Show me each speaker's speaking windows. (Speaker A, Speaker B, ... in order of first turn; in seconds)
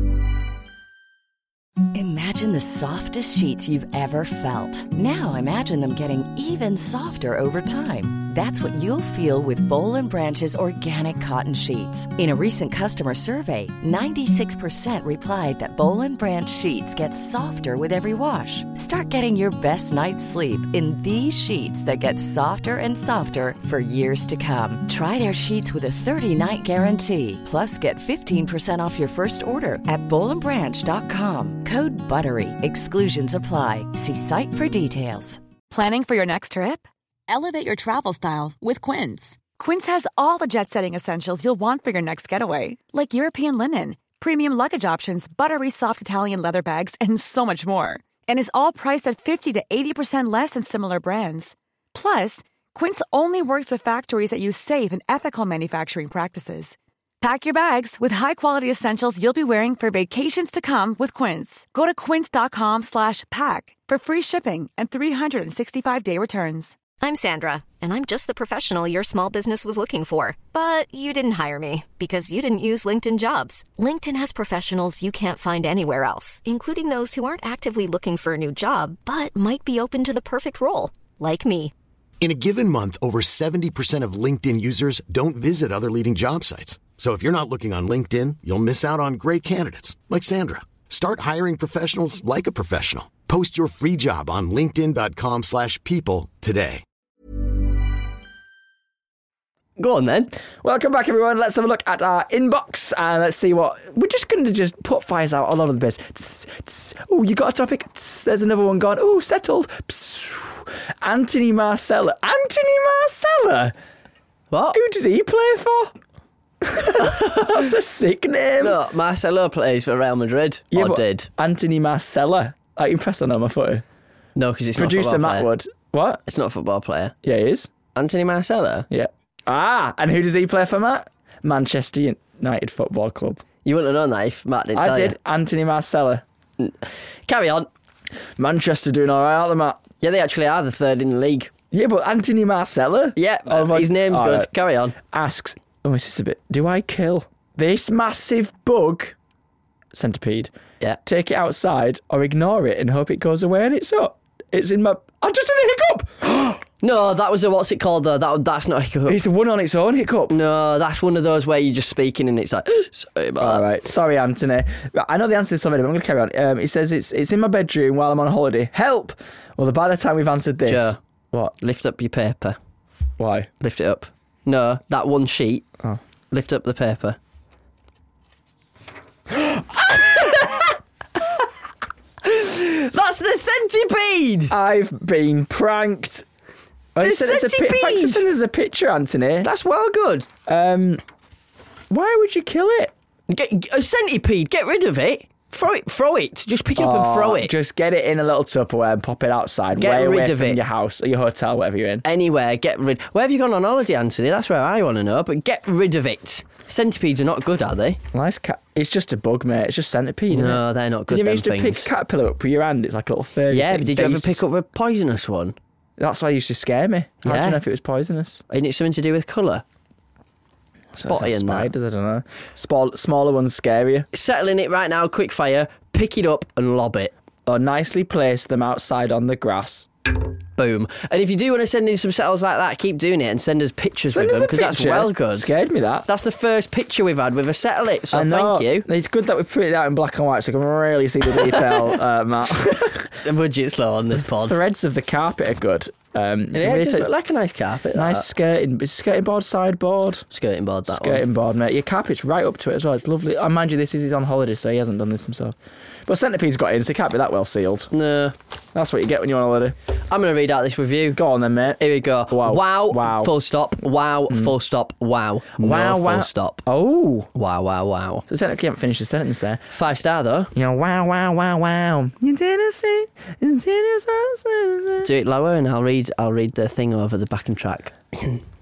Speaker A: 1.9-35.4
Speaker B: 35.7-66.8
Speaker C: 67.0-81.7
Speaker D: 82.2-96.8
Speaker E: 99.8-100.3, 114.5-114.8, 117.1-117.6, 118.6-121.3, 124.4-125.5, 126.3-127.2, 127.9-128.9, 133.7-135.2, 136.6-137.7, 140.0-141.5, 143.2-144.9, 156.8-159.2, 160.3-163.7, 170.7-171.0, 171.6-172.6, 173.6-175.7, 176.3-177.2, 180.1-180.7, 182.2-184.5, 187.0-188.2, 189.4-190.3, 193.3-197.5, 199.8-200.6, 202.0-208.0, 210.3-211.9, 213.5-215.6, 217.2-217.6, 218.5-219.6, 221.0-221.7, 224.1-227.1, 230.6-235.5, 236.1-238.9, 243.2-244.6, 246.5-248.3, 250.3-251.2, 257.9-258.4, 260.1-261.2, 261.8-266.6, 267.3-268.2, 269.7-270.5, 275.0-278.4
Speaker F: 100.6-113.8, 114.7-116.0, 116.6-118.8, 120.7-123.8, 124.8-126.2, 127.2-127.7, 128.9-133.4, 134.8-136.2, 138.4-139.8, 141.7-149.2, 149.9-150.5, 151.1-156.6, 159.1-160.3, 163.4-171.6, 173.2-173.5, 179.4-180.2, 184.5-186.3, 186.9-189.5, 190.5-191.0, 191.9-192.9, 196.8-202.1, 208.1-214.4, 216.0-218.4, 220.9-224.1, 227.5-229.9, 234.1-236.1, 238.1-243.2, 244.4-247.1, 247.9-250.2, 250.9-257.9, 258.8-259.8, 261.1-263.3, 265.6-267.3, 268.3-269.7, 270.6-275.1